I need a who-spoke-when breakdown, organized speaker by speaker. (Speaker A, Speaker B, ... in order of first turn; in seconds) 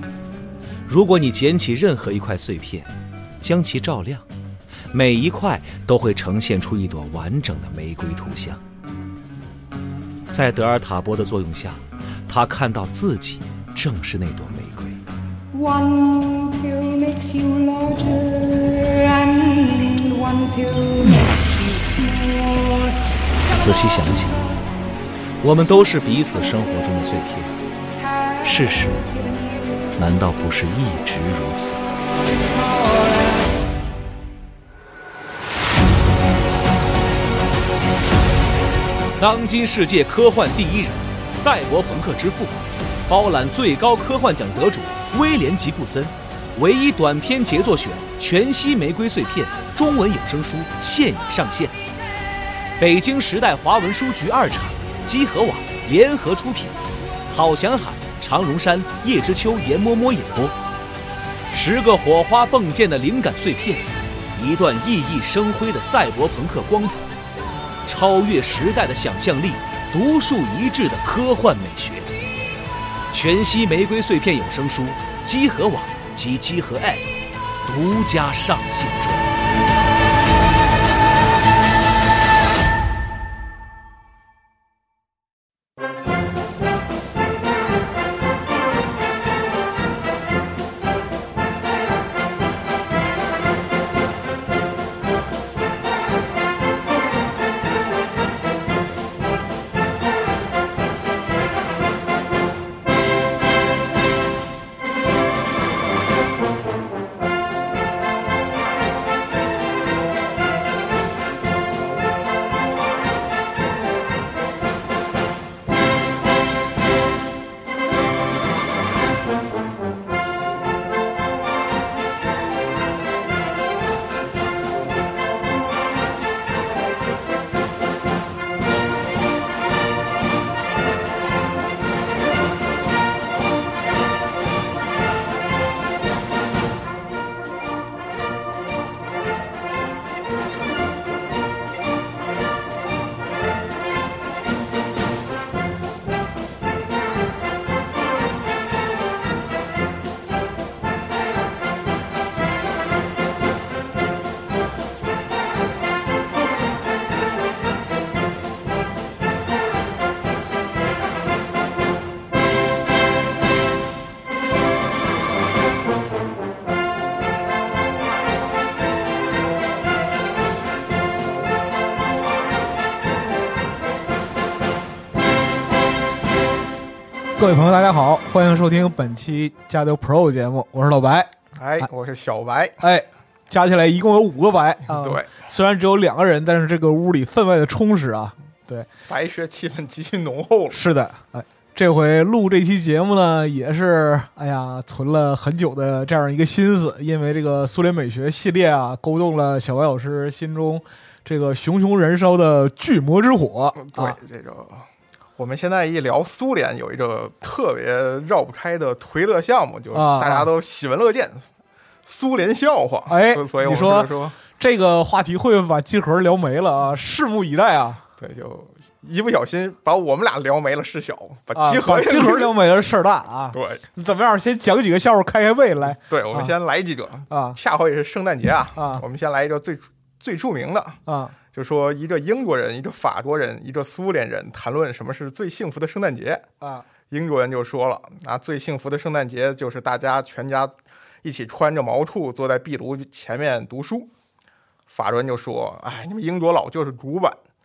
Speaker A: 0.8-4.2, 4.9-8.6, 10.3-15.0, 23.5-24.4, 25.4-27.6, 28.4-29.0, 29.9-31.8, 39.2-51.8, 52.8-56.8, 57.3-60.5, 61.5-67.0, 67.8-72.1, 73.1-77.0, 77.7-79.3
Speaker B: 15.5-22.9, 28.0-28.4, 29.0-29.9, 32.5-33.5
Speaker C: 177.4-181.9, 182.8-188.9, 190.7-204.2, 209.9-210.5, 213.1-218.0, 221.5-226.6, 227.3-227.6, 228.7-229.0, 231.1-231.3, 236.6-236.8
Speaker D: 181.5-182.8, 184.9-185.3, 189.1-190.8, 203.8-211.5, 212.0-214.3, 218.2-222.6, 223.5-223.8, 226.0-236.5, 237.1-244.1, 244.9-247.4